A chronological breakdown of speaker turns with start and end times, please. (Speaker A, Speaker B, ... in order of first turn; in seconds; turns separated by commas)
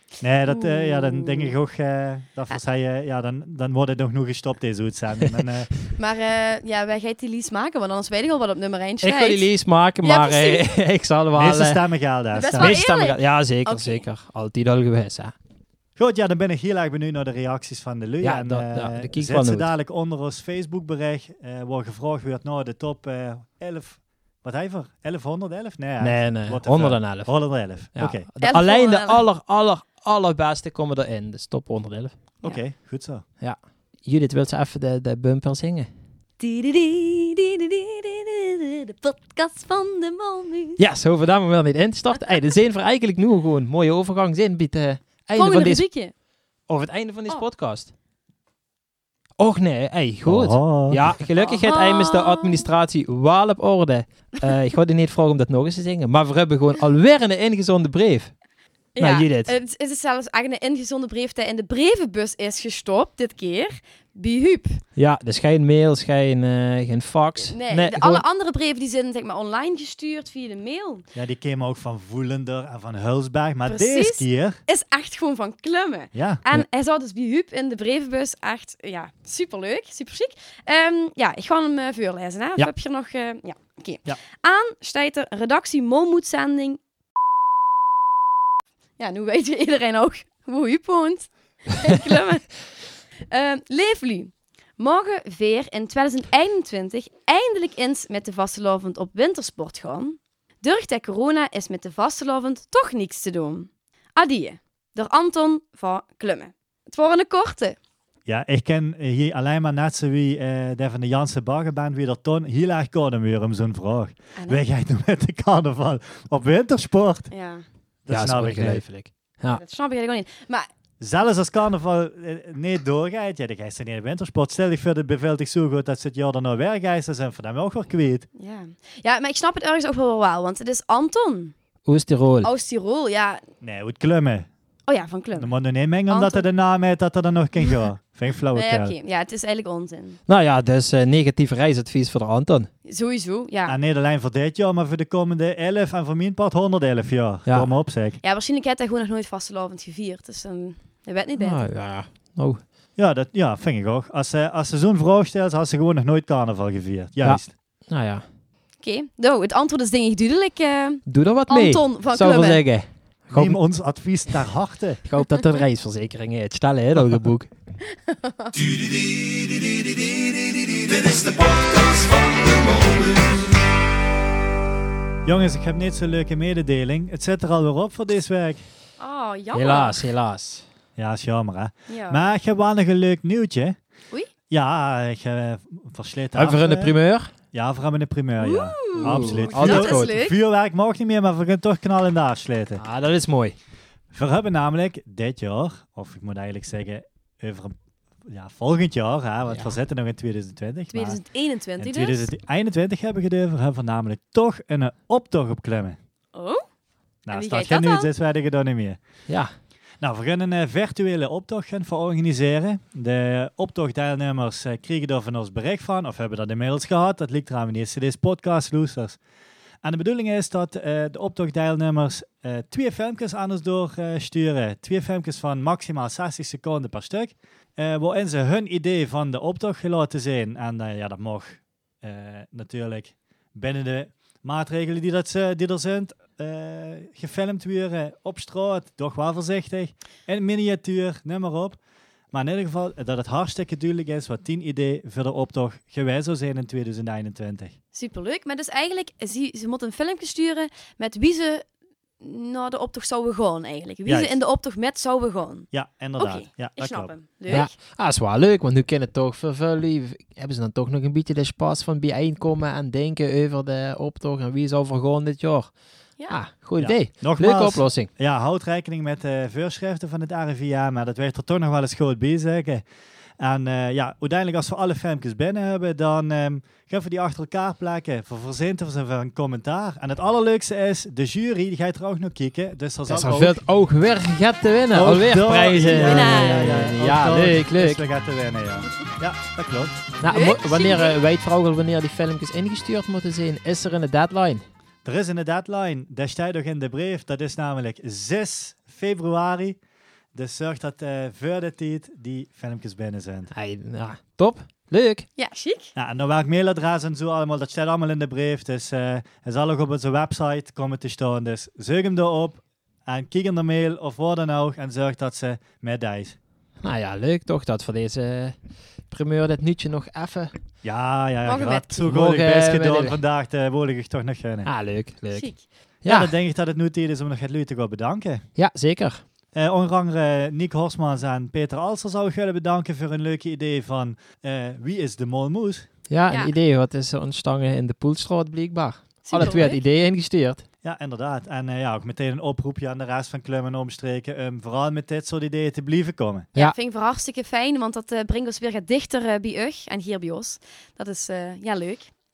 Speaker A: 0.2-5.7, Speaker B: 0.5-1.5, Speaker B: 6.0-9.5, Speaker C: 9.0-11.8, Speaker B: 10.0-10.7, Speaker A: 11.3-12.8, Speaker B: 12.3-14.1, Speaker C: 12.5-15.3, Speaker A: 16.0-28.3, Speaker C: 18.2-19.7, Speaker C: 26.0-32.1, Speaker B: 28.4-29.2, Speaker A: 32.4-33.2, Speaker C: 33.4-35.9, Speaker B: 36.4-40.8, Speaker C: 40.8-45.9, Speaker B: 45.3-46.1, Speaker C: 46.7-47.9, Speaker C: 49.4-58.3, Speaker A: 50.2-51.1, Speaker B: 51.4-52.7, Speaker B: 59.0-64.8, Speaker C: 59.0-59.5, Speaker C: 65.0-68.2, Speaker B: 67.4-71.0, Speaker A: 71.1-74.6, Speaker B: 73.7-86.8, Speaker A: 76.1-76.4, Speaker B: 89.0-92.5, Speaker B: 93.3-107.8, Speaker A: 108.2-117.3, Speaker B: 114.3-114.6, Speaker B: 117.3-117.6, Speaker A: 118.1-118.8, Speaker C: 118.1-119.6, Speaker B: 119.5-120.7, Speaker A: 121.0-128.3, Speaker B: 128.4-131.6, Speaker C: 131.8-132.5, Speaker B: 132.4-133.4, Speaker A: 133.6-134.5, Speaker B: 134.9-135.5, Speaker A: 135.3-138.9, Speaker B: 136.1-136.4, Speaker B: 138.5-140.2, Speaker C: 140.3-142.7, Speaker B: 142.8-143.8, Speaker A: 143.7-148.2, Speaker B: 148.2-151.7, Speaker C: 151.4-152.6, Speaker A: 153.0-157.5, Speaker C: 157.2-158.2, Speaker B: 158.8-162.6, Speaker C: 161.1-163.6, Speaker A: 163.3-165.0, Speaker C: 165.0-167.5, Speaker B: 165.2-165.6, Speaker B: 168.1-168.5, Speaker D: 168.5-173.6, Speaker A: 175.2-178.6, Speaker B: 179.0-180.1, Speaker C: 179.5-180.6, Speaker A: 181.0-183.8, Speaker B: 181.9-182.3, Speaker A: 184.5-186.9, Speaker C: 186.3-187.3, Speaker A: 187.5-192.8, Speaker B: 188.4-190.3, Speaker C: 188.9-190.1, Speaker C: 192.8-193.6, Speaker A: 194.1-201.2, Speaker B: 200.9-202.3, Speaker A: 201.8-206.0, Speaker B: 206.3-206.6, Speaker A: 207.2-209.0, Speaker B: 207.3-208.1, Speaker A: 210.0-219.2, Speaker A: 219.8-241.8, Speaker A: 242.3-247.8, Speaker B: 247.9-251.7, Speaker B: 252.2-255.7, Speaker A: 254.1-254.4, Speaker A: 255.7-257.7, Speaker B: 256.2-257.7, Speaker C: 257.5-265.7, Speaker C: 266.3-268.1, Speaker A: 266.8-272.8, Speaker A: 273.4-283.6, Speaker C: 283.1-288.0, Speaker A: 284.9-290.0, Speaker B: 285.8-286.7, Speaker C: 290.2-294.6, Speaker B: 290.3-291.2, Speaker A: 295.0-299.8, Speaker A: 300.3-303.5, Speaker C: 303.5-305.3, Speaker B: 305.4-305.9, Speaker A: 305.9-316.4, Speaker C: 316.8-318.6, Speaker C: 319.1-320.5, Speaker A: 320.8-324.7, Speaker B: 321.4-322.0, Speaker C: 322.1-323.2, Speaker C: 324.6-326.3, Speaker B: 325.3-325.6, Speaker A: 326.0-328.4, Speaker C: 328.6-329.2, Speaker A: 329.5-335.9, Speaker C: 336.1-340.6, Speaker B: 336.3-336.5, Speaker B: 339.2-339.8, Speaker A: 340.8-346.5, Speaker B: 346.6-352.1